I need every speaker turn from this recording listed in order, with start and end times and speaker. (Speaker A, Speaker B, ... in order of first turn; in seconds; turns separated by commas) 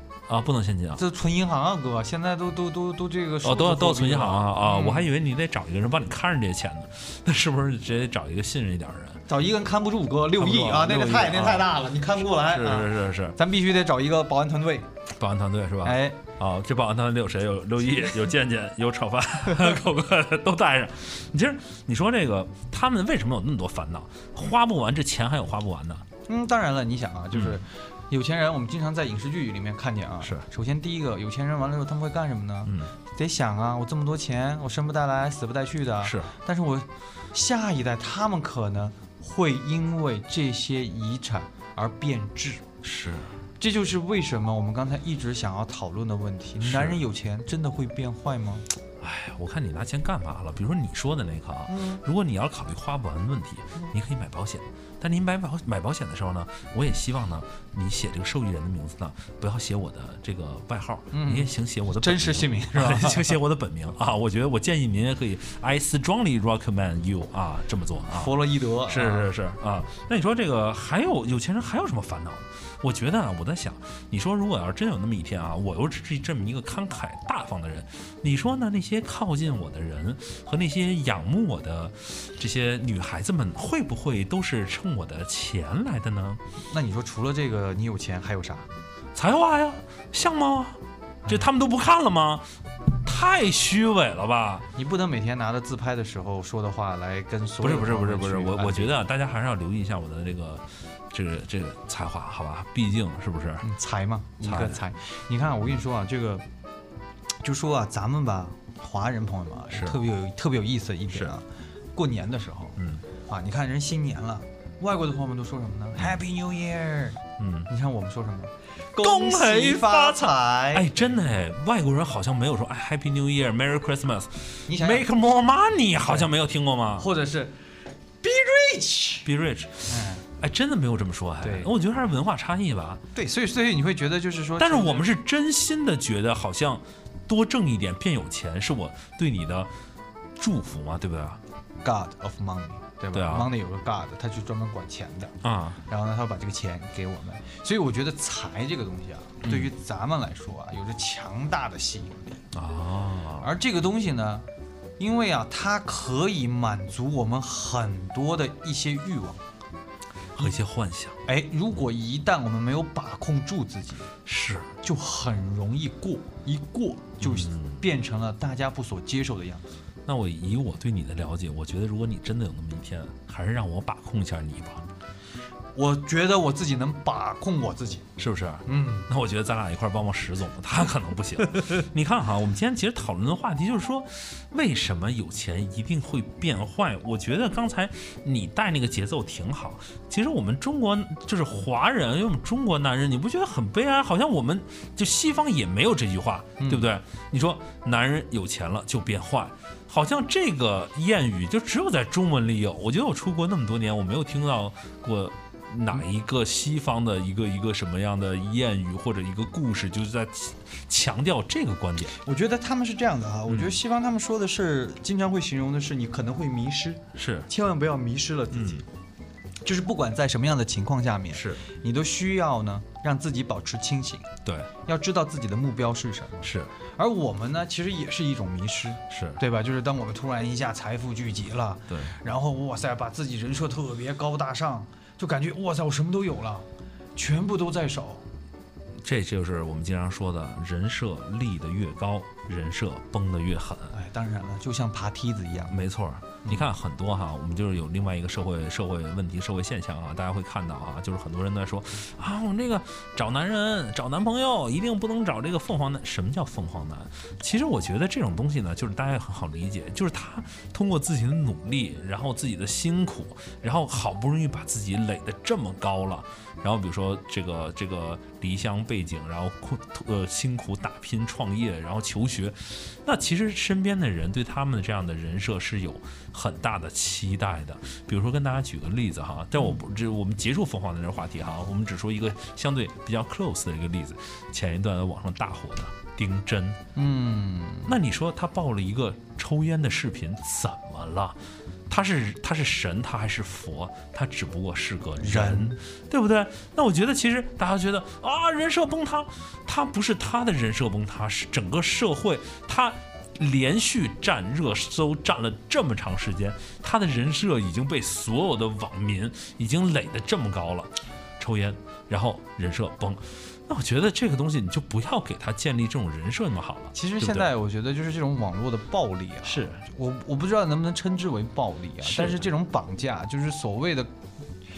Speaker A: 0.3-1.0, Speaker B: 0.9-5.1, Speaker A: 3.4-9.2, Speaker B: 9.3-14.9, Speaker A: 10.4-11.7, Speaker A: 12.2-13.4, Speaker A: 15.1-26.0, Speaker B: 15.8-16.2, Speaker B: 26.3-42.6, Speaker A: 30.2-30.5, Speaker A: 32.6-32.9, Speaker A: 36.0-36.3, Speaker A: 42.8-43.3, Speaker B: 43.6-48.6, Speaker A: 46.6-47.0, Speaker A: 49.0-86.4, Speaker B: 51.7-52.0, Speaker B: 61.1-63.4, Speaker B: 68.1-69.3, Speaker B: 86.7-88.7, Speaker A: 89.1-92.5, Speaker A: 93.0-94.7, Speaker B: 94.7-99.0, Speaker A: 97.6-103.7, Speaker B: 103.6-106.4, Speaker A: 104.4-104.8, Speaker B: 107.4-121.2, Speaker A: 109.7-110.0, Speaker A: 111.1-111.3, Speaker A: 112.8-113.0, Speaker A: 117.4-117.7, Speaker A: 119.0-127.1, Speaker B: 124.7-125.1, Speaker B: 126.0-126.3, Speaker B: 127.0-127.6, Speaker B: 128.2-129.3, Speaker A: 129.2-133.0, Speaker B: 129.9-130.2, Speaker B: 131.4-131.7, Speaker B: 133.1-135.1, Speaker A: 134.6-139.7, Speaker A: 140.4-141.4, Speaker B: 141.8-145.3, Speaker A: 143.1-143.5, Speaker A: 145.4-145.8, Speaker B: 145.9-152.4, Speaker A: 149.4-149.7, Speaker A: 152.5-153.5, Speaker B: 153.4-154.4, Speaker B: 155.0-159.4, Speaker A: 160.3-161.2, Speaker B: 161.2-164.1, Speaker A: 164.2-164.8, Speaker B: 164.8-169.7, Speaker A: 167.2-167.8, Speaker A: 170.1-174.8, Speaker B: 175.7-178.1, Speaker A: 178.2-212.2, Speaker B: 178.7-179.1, Speaker B: 196.6-196.9, Speaker B: 212.2-218.9, Speaker A: 213.5-213.8, Speaker A: 217.1-217.5, Speaker A: 218.5-218.8, Speaker B: 219.6-224.3, Speaker A: 221.3-221.6, Speaker A: 224.4-224.7, Speaker B: 224.8-238.2, Speaker A: 226.4-226.7, Speaker A: 229.1-229.4, Speaker A: 231.9-232.1, Speaker A: 239.0-243.9, Speaker B: 243.9-245.8, Speaker A: 245.7-286.8, Speaker B: 286.9-288.0, Speaker A: 287.9-291.4, Speaker A: 291.9-317.5, Speaker B: 295.2-295.8, Speaker B: 316.9-324.1, Speaker A: 319.4-319.8, Speaker A: 322.0-322.4